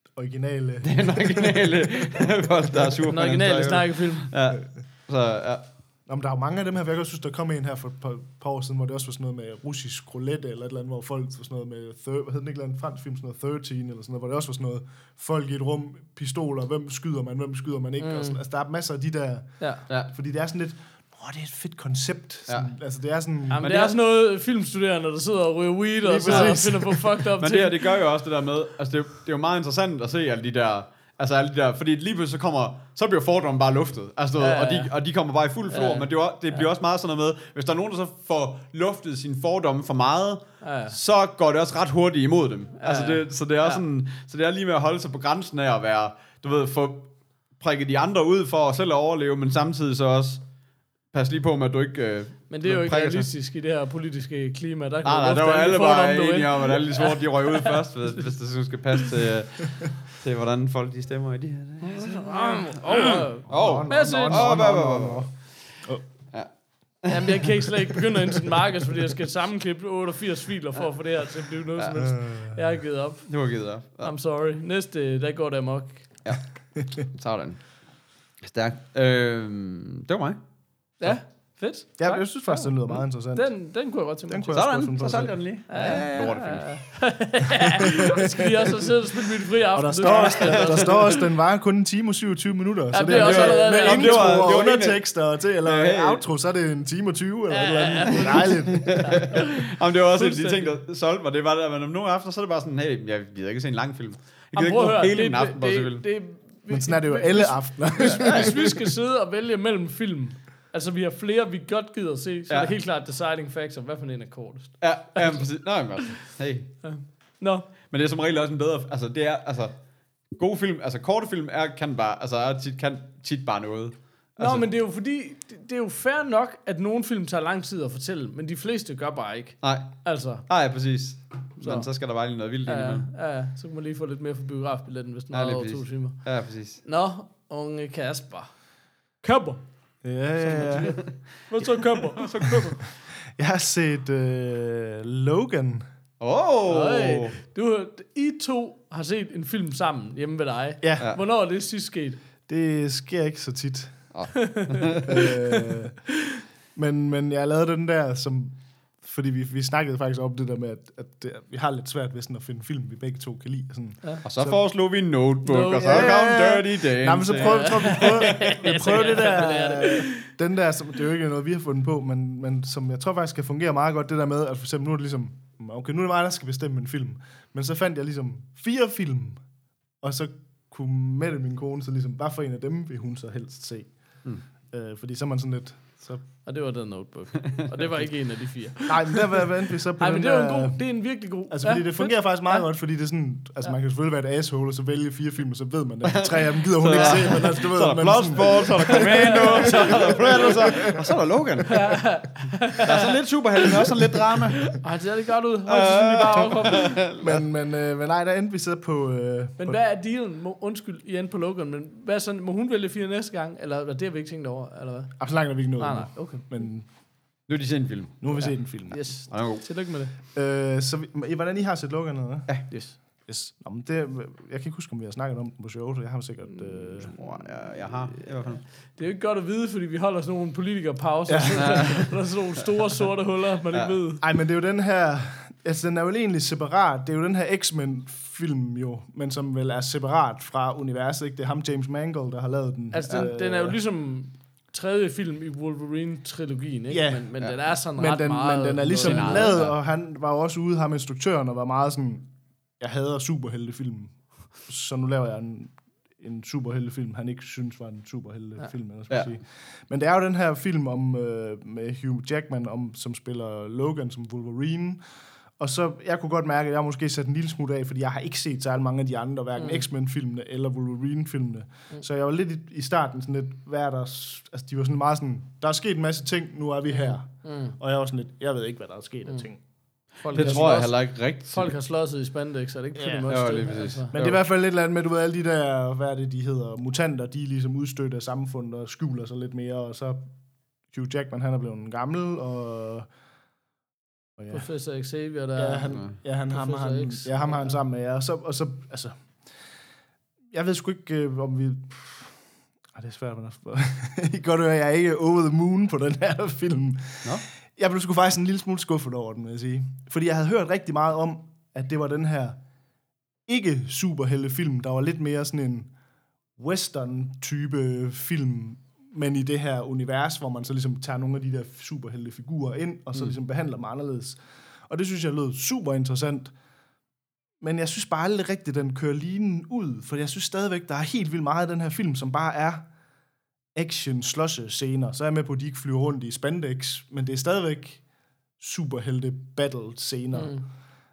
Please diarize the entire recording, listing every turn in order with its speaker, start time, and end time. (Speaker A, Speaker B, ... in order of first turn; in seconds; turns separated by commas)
Speaker A: 0.1-3.0, Speaker B: 0.8-5.6, Speaker C: 3.1-4.3, Speaker A: 6.1-19.6, Speaker C: 18.0-18.4, Speaker A: 20.1-23.6, Speaker C: 23.5-27.8, Speaker B: 23.6-24.0, Speaker A: 26.0-27.0, Speaker B: 26.3-26.6, Speaker B: 27.4-50.4, Speaker C: 34.4-34.9, Speaker C: 35.7-36.6, Speaker C: 40.6-41.0, Speaker C: 42.8-43.8, Speaker B: 51.1-53.3, Speaker C: 52.5-57.7, Speaker B: 55.0-65.3, Speaker C: 61.8-64.6, Speaker A: 63.5-65.3, Speaker B: 67.0-67.5, Speaker C: 67.1-73.3, Speaker B: 71.8-72.0, Speaker A: 72.0-72.6, Speaker B: 73.3-74.1, Speaker C: 74.0-76.0, Speaker A: 76.8-77.0, Speaker B: 77.0-77.6, Speaker B: 78.4-80.4, Speaker C: 81.0-82.7, Speaker A: 82.0-83.5, Speaker C: 83.3-84.6, Speaker A: 84.3-85.4, Speaker B: 84.5-86.7, Speaker C: 85.7-91.2, Speaker A: 87.9-88.7, Speaker A: 89.7-99.2, Speaker B: 90.0-90.9, Speaker C: 92.9-94.7, Speaker B: 93.1-95.0, Speaker B: 95.6-96.2, Speaker C: 97.5-100.8, Speaker B: 98.7-106.0, Speaker C: 104.5-115.4, Speaker A: 106.7-108.7, Speaker B: 108.0-108.5, Speaker B: 114.8-116.7, Speaker C: 116.8-117.7, Speaker B: 117.9-119.7, Speaker B: 120.3-124.7, Speaker C: 124.4-130.5, Speaker B: 129.6-133.1, Speaker C: 131.6-131.9, Speaker C: 132.7-136.2, Speaker B: 135.3-136.8, Speaker C: 136.8-138.5, Speaker C: 139.2-139.6, Speaker A: 140.0-141.0, Speaker C: 140.5-142.7, Speaker B: 140.6-141.1, Speaker B: 142.1-142.8, Speaker A: 143.3-145.9, Speaker B: 146.2-147.4, Speaker C: 146.7-152.2, Speaker A: 150.8-151.1, Speaker A: 152.5-154.1, Speaker B: 154.1-155.2, Speaker C: 154.4-155.8, Speaker A: 155.1-156.0, Speaker A: 156.8-164.6, Speaker B: 164.2-169.2, Speaker C: 165.4-166.3, Speaker A: 165.8-179.4, Speaker C: 167.3-170.3, Speaker A: 180.0-183.9, Speaker A: 184.7-186.3, Speaker C: 186.4-189.4, Speaker A: 188.9-190.8, Speaker C: 190.0-192.7, Speaker A: 191.5-201.1, Speaker B: 196.1-202.0, Speaker C: 196.8-197.4, Speaker C: 198.7-200.9, Speaker C: 201.7-203.8, Speaker B: 202.8-204.8, Speaker C: 204.7-207.0, Speaker B: 205.7-207.4, Speaker A: 207.2-209.8, Speaker C: 209.6-215.2, Speaker A: 215.2-216.9, Speaker C: 215.8-216.7, Speaker B: 217.5-218.5, Speaker A: 218.2-219.0, Speaker C: 218.9-220.1, Speaker B: 219.3-219.6, Speaker A: 220.3-222.6, Speaker A: 223.3-227.2, Speaker B: 227.0-228.6, Speaker C: 228.2-234.2, Speaker A: 231.3-232.0, Speaker B: 231.6-232.1, Speaker A: 234.2-243.8, Speaker C: 242.9-249.6, Speaker A: 246.9-247.3, Speaker A: 247.9-252.3, Speaker B: 249.0-249.8, Speaker A: 252.8-265.0, Speaker A: 265.6-279.6, Speaker C: 269.6-269.9, Speaker C: 276.9-277.8, Speaker C: 280.2-284.1, Speaker A: 280.3-280.7, Speaker B: 280.3-281.8, Speaker A: 282.9-283.2, Speaker B: 283.3-284.4, Speaker A: 284.1-290.3, Speaker A: 290.9-293.1, Speaker A: 294.4-294.7, Speaker C: 294.5-297.8, Speaker A: 295.6-299.1, Speaker B: 295.9-296.2, Speaker A: 300.5-302.4, Speaker A: 302.9-312.6, Speaker A: 313.5-315.9, Speaker A: 316.6-324.4, Speaker A: 324.9-326.5, Speaker A: 327.6-332.9, Speaker A: 333.8-338.0, Speaker A: 338.6-340.6, Speaker C: 340.3-340.7